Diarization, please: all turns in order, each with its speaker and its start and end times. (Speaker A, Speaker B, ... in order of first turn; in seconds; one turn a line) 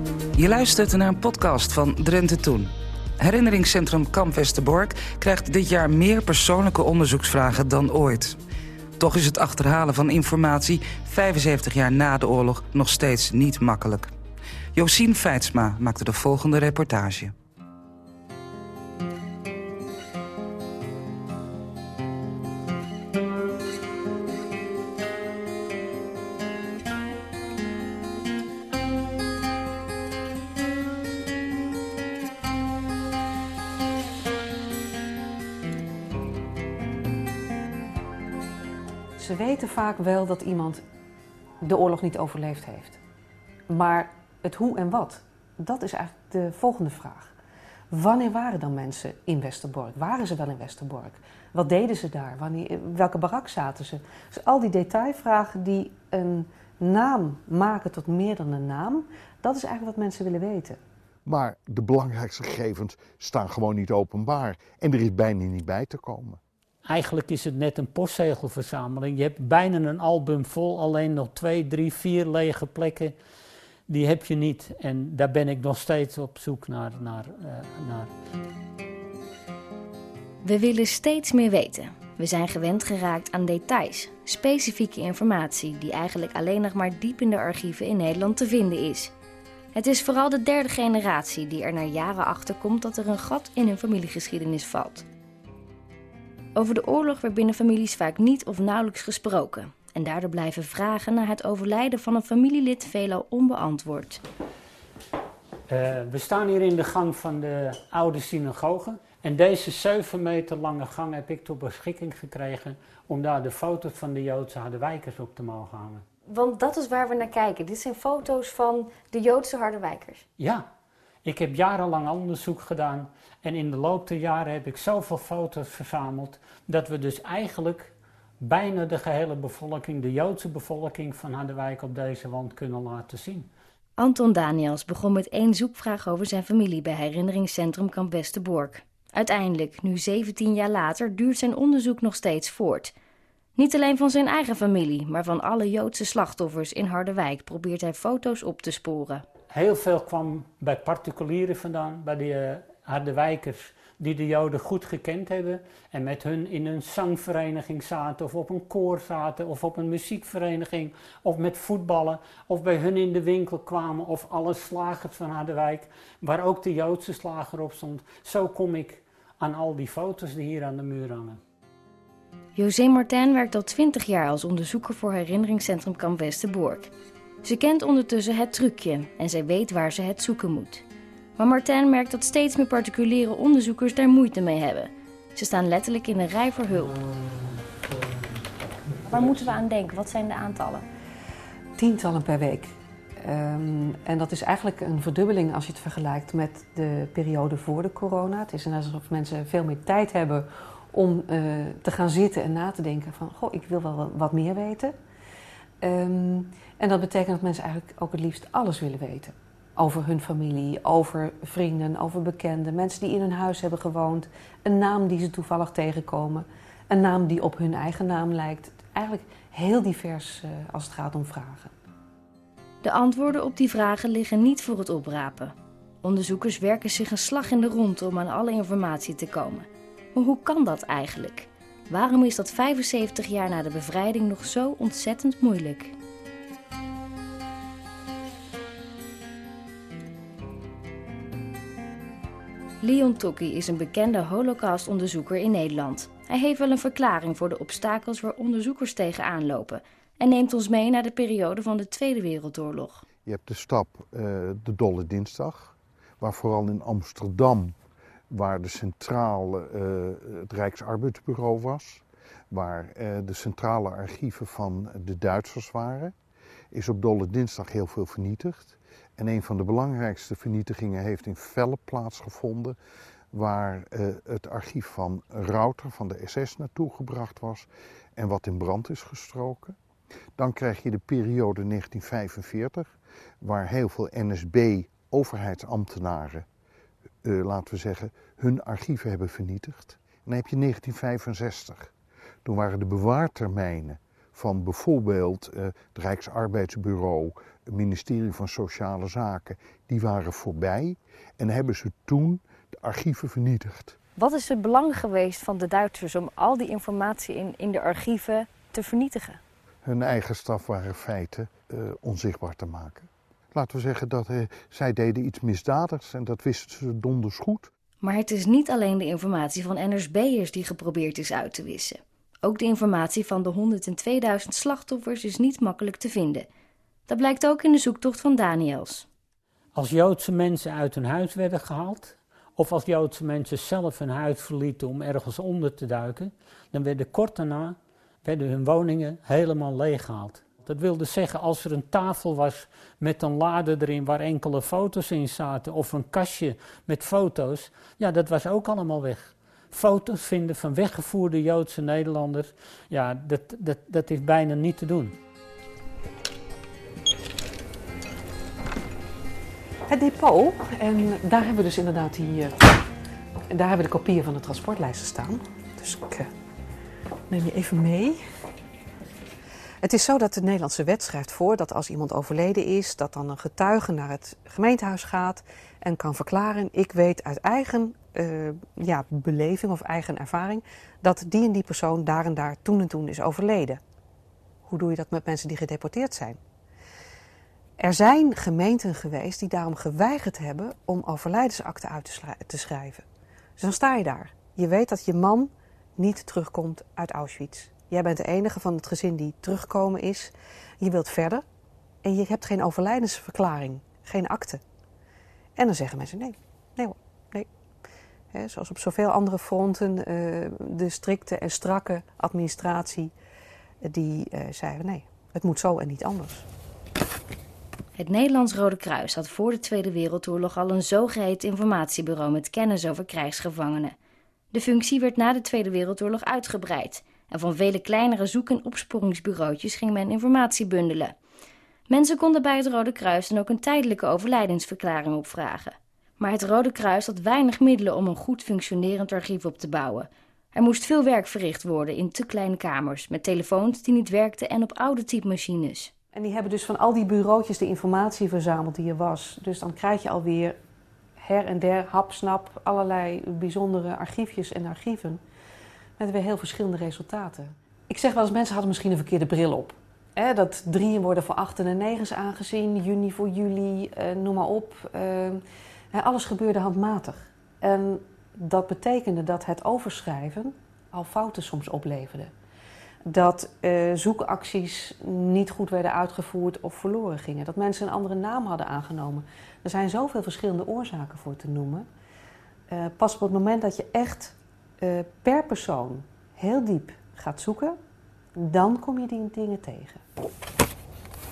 Speaker A: 0.3-8.4
Speaker A: 9.0-14.1
Speaker A: 14.8-17.3
Speaker B: 39.2-40.8
Speaker B: 41.6-43.0
Speaker B: 43.7-47.3
Speaker B: 47.9-60.8
Speaker C: 61.3-66.4
Speaker D: 66.8-73.2
Speaker D: 73.9-78.1
Speaker E: 80.4-89.1
Speaker E: 89.7-95.1
Speaker E: 96.5-104.2
Speaker D: 105.7-116.0
Speaker E: 116.3-120.2
Speaker D: 120.4-120.6
Speaker D: 121.2-133.5
Speaker E: 134.0-142.9
Speaker E: 143.6-149.2
Speaker D: 149.5-171.4
Speaker E: 172.6-176.9
Speaker E: 177.4-180.8
Speaker E: 181.4-186.9
Speaker E: 189.0-190.8
Speaker B: 191.8-204.9
Speaker B: 205.8-221.7
Speaker E: 222.8-235.9
Speaker E: 242.8-253.0
Speaker C: 253.2-257.8
Speaker C: 258.3-266.1
Speaker C: 266.7-272.8
Speaker C: 273.3-279.8
Speaker C: 280.4-282.9
Speaker C: 283.4-286.4
Speaker C: 287.2-291.9
Speaker C: 292.4-303.9
Speaker E: 304.2-309.4
Speaker C: 309.8-317.7
Speaker E: 318.0-326.5
Speaker E: 327.1-329.1
Speaker D: 329.8-355.1
Speaker B: 359.9-362.7
Speaker B: 363.5-366.3
Speaker B: 367.3-368.2
Speaker B: 369.8-383.8
Speaker B: 384.7-386.4
Speaker B: 387.8-393.0
Speaker B: 393.6-401.4
Speaker B: 402.0-404.6
Speaker B: 405.6-407.5
Speaker B: 408.3-413.1
Speaker B: 413.8-416.4
Speaker E: 417.9-423.9
Speaker E: 424.5-431.2
Speaker E: 431.9-445.9
Speaker B: 446.1-450.6
Speaker B: 451.2-455.2
Speaker B: 456.0-465.4
Speaker B: 465.9-472.3
Speaker B: 473.1-481.9
Speaker B: 482.7-487.8
Speaker B: 488.4-490.0